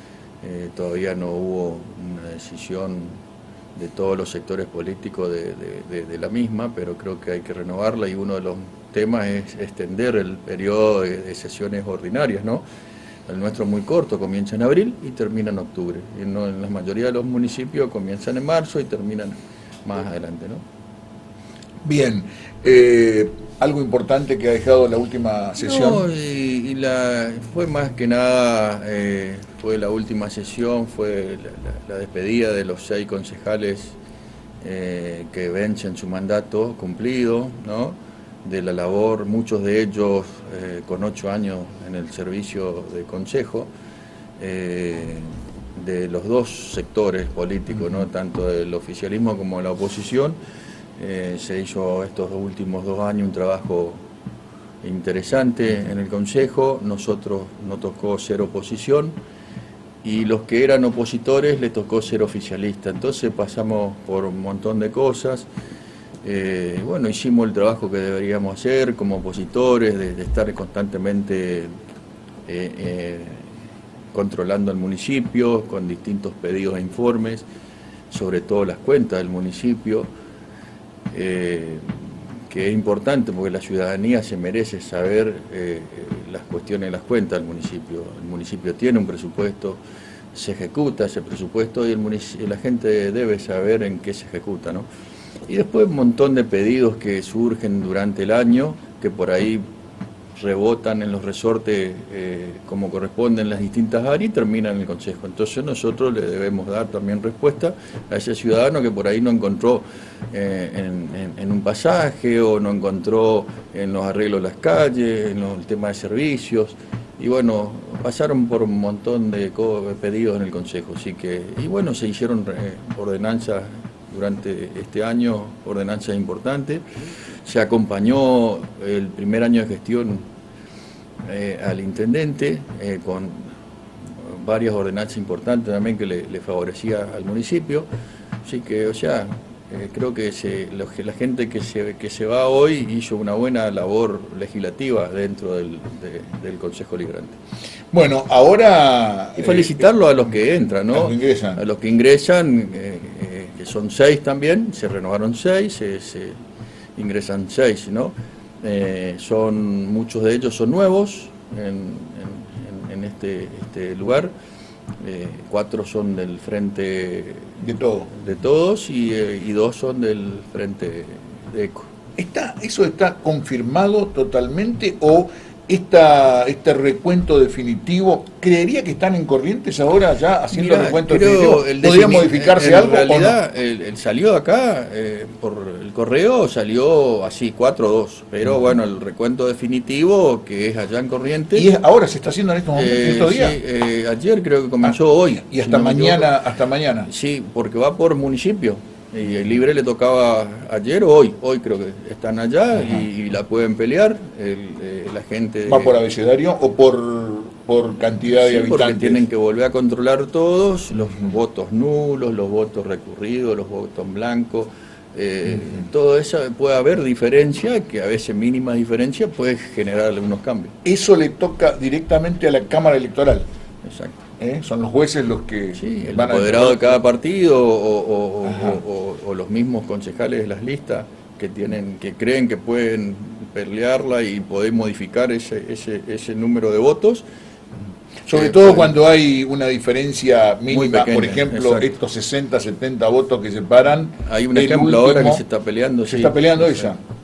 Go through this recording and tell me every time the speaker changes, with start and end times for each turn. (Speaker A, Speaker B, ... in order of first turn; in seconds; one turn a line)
Speaker A: 0.4-3.2
Speaker A: 3.8-12.6
Speaker A: 13.3-20.6
Speaker B: 21.8-26.1
Speaker A: 25.6-34.0
Speaker A: 34.6-43.7
Speaker A: 44.4-50.4
Speaker A: 51.0-54.0
Speaker A: 54.8-59.2
Speaker A: 60.0-65.5
Speaker A: 66.2-71.7
Speaker A: 72.5-73.5
Speaker A: 74.1-77.5
Speaker A: 78.1-80.1
Speaker A: 81.1-89.8
Speaker A: 90.3-94.9
Speaker A: 95.5-99.6
Speaker A: 100.4-126.8
Speaker A: 127.5-130.2
Speaker A: 131.2-133.6
Speaker A: 134.1-137.9
Speaker A: 138.4-147.4
Speaker B: 147.9-149.8
Speaker A: 149.4-156.4
Speaker B: 150.9-151.6
Speaker A: 157.0-164.3
Speaker A: 165.0-167.6
Speaker B: 167.6-168.1
Speaker A: 168.1-171.9
Speaker B: 172.2-183.4
Speaker A: 180.5-191.7
Speaker B: 191.6-193.6
Speaker A: 192.7-196.3
Speaker B: 195.5-197.1
Speaker A: 197.1-205.9
Speaker B: 205.7-209.2
Speaker A: 208.3-220.8
Speaker B: 220.8-223.5
Speaker A: 223.8-224.2
Speaker B: 224.4-227.0
Speaker A: 225.8-237.2
Speaker B: 228.5-228.8
Speaker B: 238.3-245.4
Speaker A: 238.3-238.9
Speaker A: 240.7-241.9
Speaker A: 244.2-247.0
Speaker B: 246.1-247.0